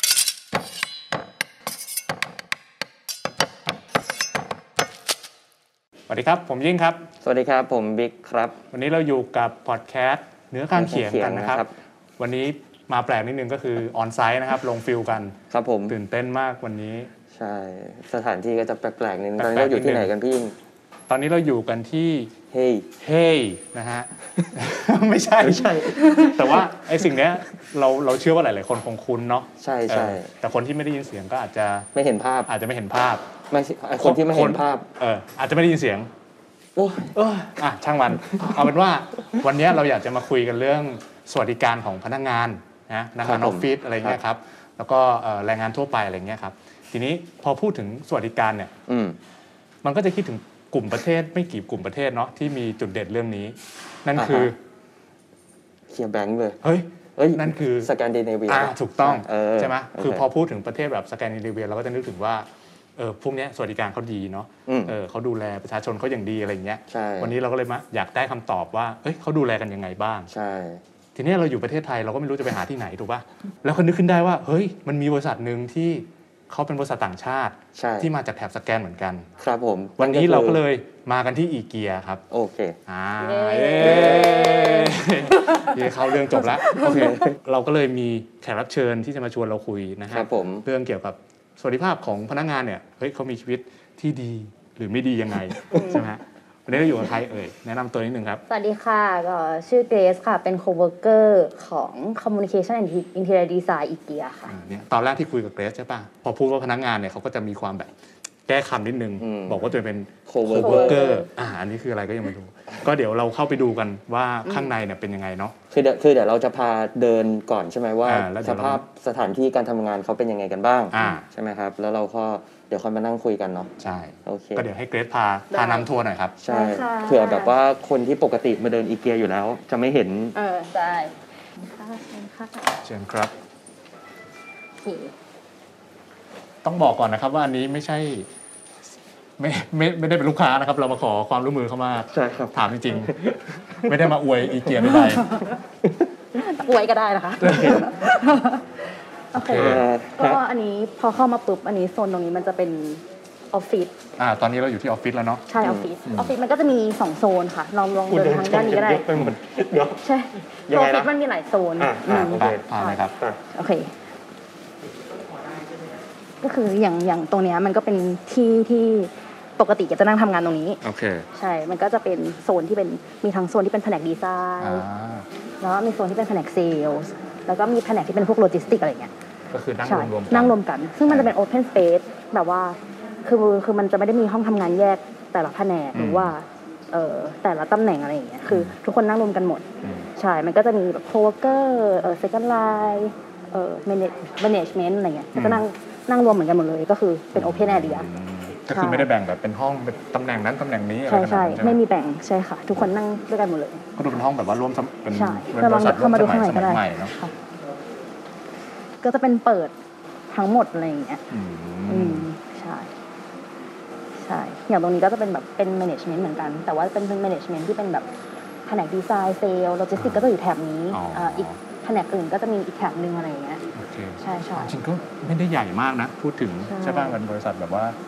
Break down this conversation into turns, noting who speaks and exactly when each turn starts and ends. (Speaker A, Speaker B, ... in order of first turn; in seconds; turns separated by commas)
Speaker A: 6.1-7.1, Speaker B: 7.2-8.6, Speaker A: 8.7-11.7, Speaker B: 10.7-11.7, Speaker A: 12.2-15.4, Speaker B: 15.5-16.0, Speaker A: 15.9-17.1, Speaker B: 17.3-20.5, Speaker A: 19.4-20.1, Speaker A: 21.1-22.3, Speaker B: 22.5-22.9, Speaker A: 23.0-31.9, Speaker B: 25.4-26.2, Speaker B: 29.6-30.3, Speaker B: 31.9-32.5, Speaker A: 32.5-33.3, Speaker B: 33.5-34.9, Speaker A: 34.0-36.1, Speaker B: 36.8-37.2, Speaker A: 37.1-48.7, Speaker B: 43.2-44.2, Speaker B: 48.9-49.2, Speaker A: 49.8-54.6, Speaker B: 54.1-54.5, Speaker B: 55.9-56.6, Speaker A: 56.6-57.9, Speaker B: 57.1-60.2, Speaker A: 58.5-70.3, Speaker B: 64.7-65.0, Speaker B: 66.9-67.3, Speaker B: 70.3-70.8, Speaker A: 71.2-79.3, Speaker B: 77.8-78.1, Speaker B: 79.4-80.6, Speaker A: 80.0-82.2, Speaker B: 82.3-82.8, Speaker A: 82.9-98.4, Speaker C: 83.2-87.3, Speaker B: 83.8-84.4, Speaker B: 86.9-87.3, Speaker B: 90.1-90.7, Speaker C: 95.7-96.0, Speaker C: 98.5-104.6, Speaker A: 104.5-107.9, Speaker A: 108.5-115.5, Speaker B: 109.2-109.6, Speaker B: 110.2-111.0, Speaker C: 110.5-111.3, Speaker C: 114.4-114.7, Speaker B: 115.7-123.7, Speaker A: 118.0-118.9, Speaker A: 120.9-121.3, Speaker A: 123.8-126.3, Speaker B: 124.2-124.7, Speaker C: 125.5-125.9, Speaker B: 126.4-130.3, Speaker C: 126.5-127.5, Speaker C: 130.3-132.8, Speaker A: 132.8-133.3, Speaker C: 134.8-135.1, Speaker A: 136.6-138.3, Speaker A: 139.4-143.1, Speaker B: 142.1-143.9, Speaker A: 143.8-145.3, Speaker C: 144.8-145.5, Speaker C: 146.3-148.7, Speaker A: 147.4-147.8, Speaker B: 147.6-147.8, Speaker A: 149.3-149.8, Speaker C: 149.3-153.9, Speaker B: 149.5-150.4, Speaker A: 154.2-155.4, Speaker C: 155.5-159.1, Speaker B: 155.6-155.9, Speaker A: 156.1-156.3, Speaker B: 158.1-160.0, Speaker C: 160.0-163.9, Speaker B: 160.7-161.1, Speaker B: 161.8-163.4, Speaker A: 162.4-163.2, Speaker C: 166.4-170.8, Speaker A: 170.8-171.2, Speaker C: 171.3-174.9, Speaker A: 174.6-175.3, Speaker C: 175.6-179.1, Speaker A: 179.5-181.3, Speaker C: 179.8-189.7, Speaker A: 185.9-186.3, Speaker A: 188.5-188.7, Speaker C: 190.2-198.1, Speaker A: 195.3-195.6, Speaker A: 197.3-201.8, Speaker C: 198.7-199.1, Speaker C: 201.1-203.8, Speaker A: 204.0-207.1, Speaker C: 205.1-207.3, Speaker C: 209.0-209.7, Speaker C: 210.3-211.2, Speaker A: 211.3-212.3, Speaker C: 211.9-212.9, Speaker C: 214.2-218.1, Speaker C: 218.7-223.6, Speaker A: 219.9-220.2, Speaker A: 220.9-221.6, Speaker A: 223.8-228.0, Speaker C: 224.2-224.7, Speaker C: 226.7-227.2